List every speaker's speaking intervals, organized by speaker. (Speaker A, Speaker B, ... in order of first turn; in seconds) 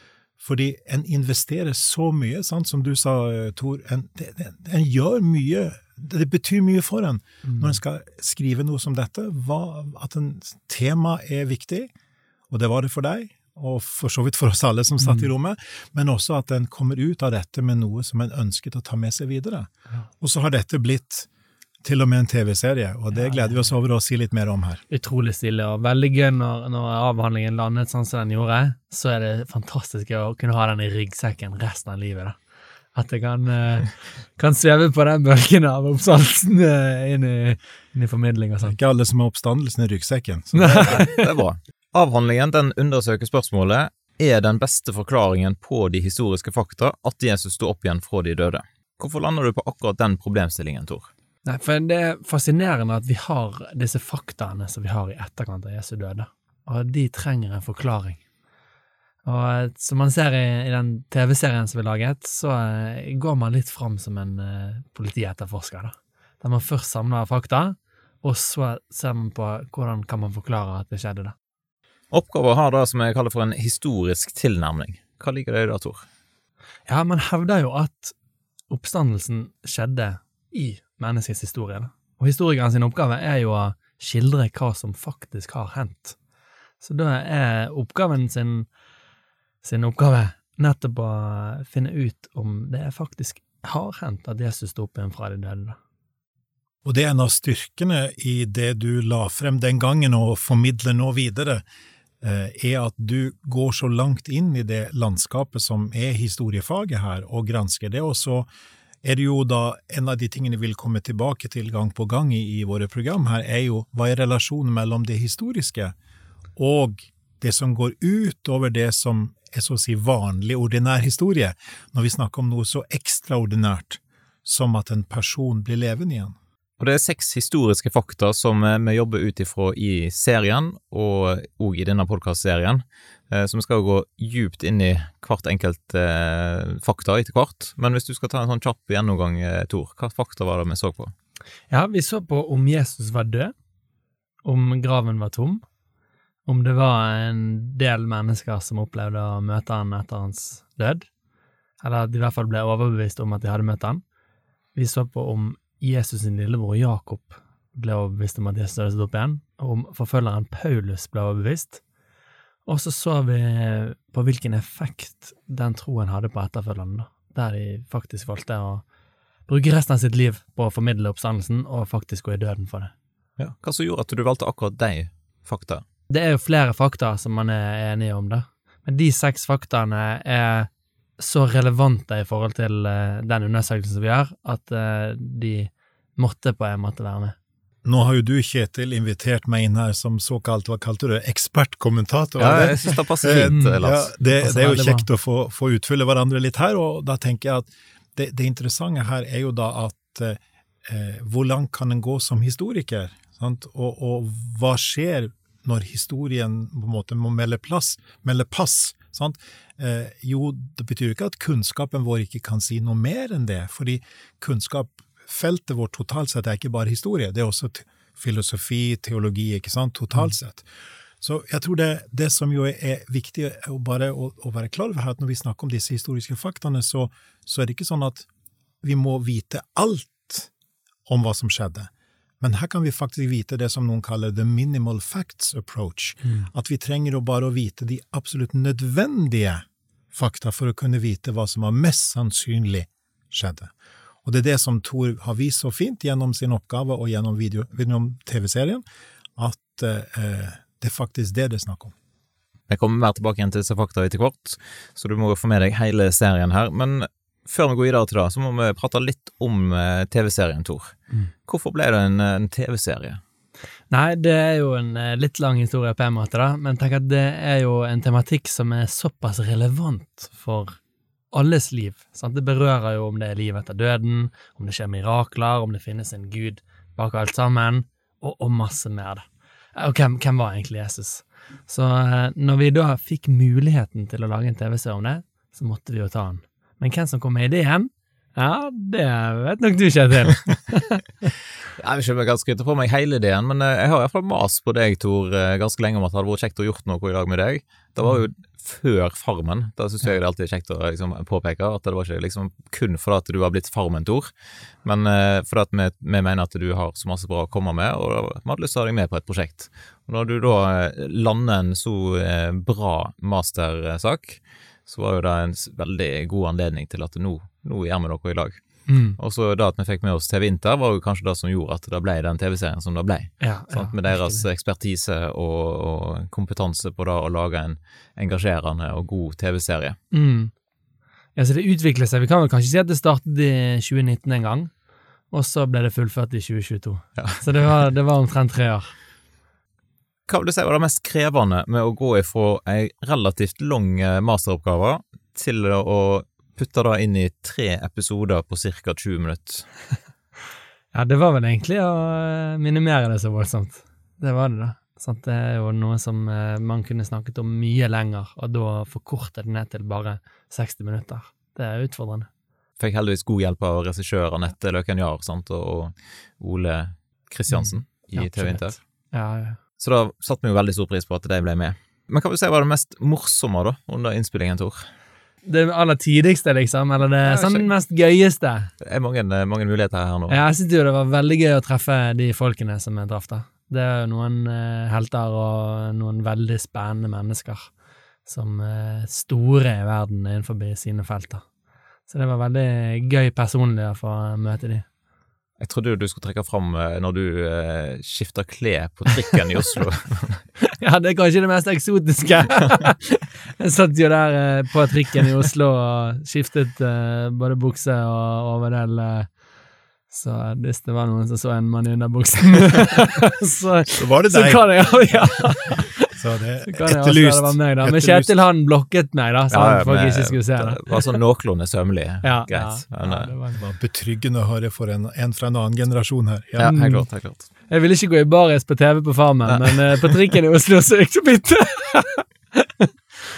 Speaker A: 0.4-11.9, 12.5-21.3, 21.8-24.8, 38.6-41.0, 96.8-101.6, 102.2-108.5, 109.0-115.9, 116.5-126.3, 187.8-220.7, 221.2-228.3, 228.8-230.5, 231.1-231.9, 232.4-243.7, 244.2-248.8, 249.3-251.9, 413.9-418.3, 423.6-426.8
Speaker B: 7.4-7.8, 15.0-15.3, 23.1-23.8, 24.9-32.4, 32.9-38.8, 40.5-41.2, 51.4-58.2, 59.2-71.3, 76.9-78.1, 78.7-86.2, 86.8-88.7, 89.6-95.8, 141.7-143.5, 144.4-145.6, 146.4-151.1, 151.8-154.0, 154.7-161.8, 162.7-168.8, 169.5-172.9, 176.1-187.3, 193.5-195.1, 263.9-270.8, 271.3-291.3, 318.9-319.2, 323.4-324.4, 330.1-330.5, 331.4-334.7, 335.3-338.9, 350.9-362.3, 367.5-369.6, 375.4-378.7, 380.3-387.7, 388.2-391.4, 392.1-394.8, 400.8-409.3, 410.1-416.1, 416.6-421.2, 422.2-423.6, 426.6-427.0, 427.7-432.9
Speaker C: 40.8-51.1, 72.1-76.0, 126.8-141.1, 173.4-175.8, 192.4-194.1, 252.7-260.9, 261.4-263.2, 291.8-304.3, 304.8-330.0, 337.2-337.4, 340.3-349.7, 362.8-368.8, 369.8-374.9, 377.2-377.7, 378.8-380.4, 395.6-400.5, 419.5-423.3, 426.6-427.5, 429.5-430.3